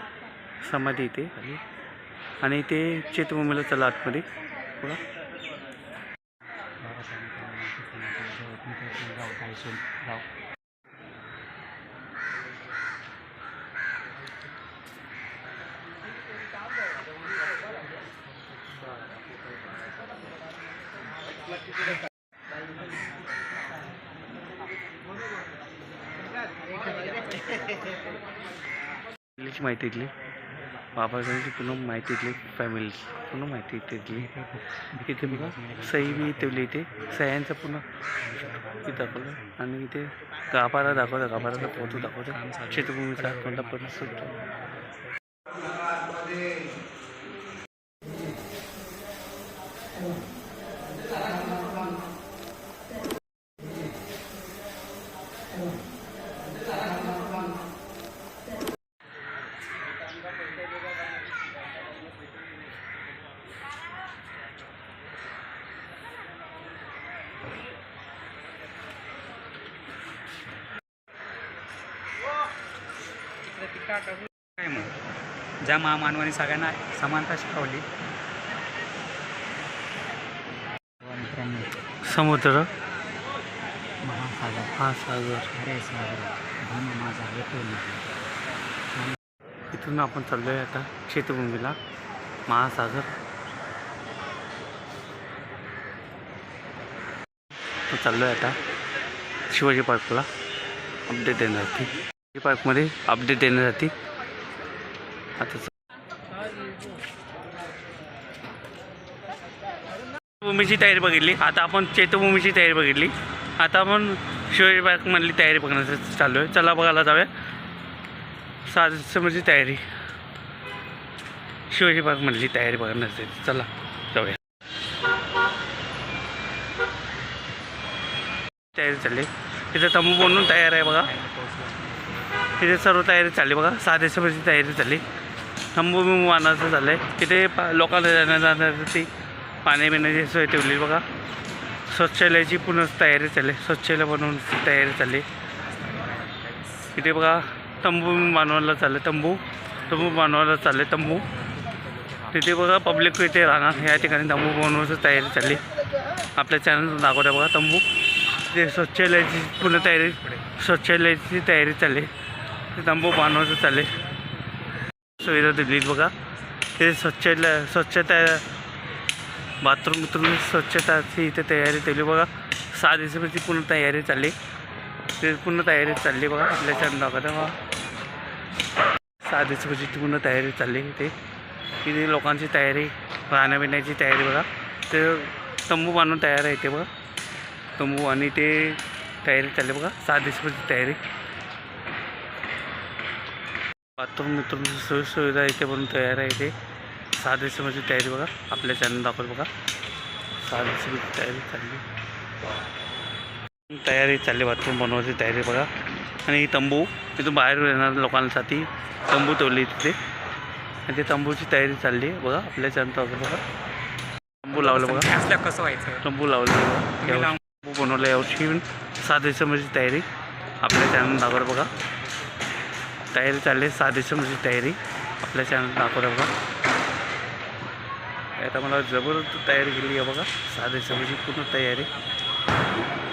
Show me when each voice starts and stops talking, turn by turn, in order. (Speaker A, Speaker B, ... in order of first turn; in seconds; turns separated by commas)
Speaker A: 0.6-1.6, Speaker A: 2.4-4.3, Speaker B: 6.8-10.3, Speaker A: 29.4-30.1, Speaker A: 31.0-34.3, Speaker B: 34.1-37.1, Speaker A: 35.1-37.8, Speaker B: 38.2-39.6, Speaker A: 38.9-44.3, Speaker B: 40.8-45.2, Speaker B: 73.9-75.0, Speaker B: 75.6-77.9, Speaker B: 81.0-81.8, Speaker A: 82.1-82.7, Speaker B: 84.0-84.7, Speaker A: 84.7-85.5, Speaker B: 85.5-88.1, Speaker A: 89.7-91.8, Speaker A: 92.5-93.1, Speaker A: 97.9-98.6, Speaker A: 99.5-100.3, Speaker A: 101.1-103.9, Speaker A: 105.4-105.7, Speaker A: 110.4-117.3, Speaker A: 118.7-119.8, Speaker A: 121.7-124.4, Speaker A: 128.7-131.1, Speaker B: 130.9-132.4, Speaker A: 132.6-135.0, Speaker A: 135.8-139.1, Speaker A: 139.7-141.0, Speaker A: 141.9-145.2, Speaker B: 145.8-146.9, Speaker A: 147.0-151.3, Speaker B: 151.6-152.3, Speaker A: 152.3-155.6, Speaker B: 153.7-154.2, Speaker A: 156.4-157.8, Speaker A: 158.5-162.1, Speaker B: 159.6-160.5, Speaker A: 162.7-163.9, Speaker A: 165.2-166.1, Speaker A: 166.8-168.5, Speaker A: 169.6-174.3, Speaker A: 175.2-177.6, Speaker A: 179.3-181.1, Speaker A: 181.8-186.9, Speaker A: 187.8-191.0, Speaker A: 194.0-196.5, Speaker A: 197.2-199.5, Speaker A: 200.4-201.8, Speaker A: 203.7-205.7, Speaker A: 206.3-210.0, Speaker A: 210.9-213.4, Speaker A: 214.4-215.1, Speaker B: 214.5-216.1, Speaker A: 216.0-220.1, Speaker B: 217.0-217.4, Speaker A: 220.6-221.7, Speaker A: 223.1-226.3, Speaker A: 228.4-231.9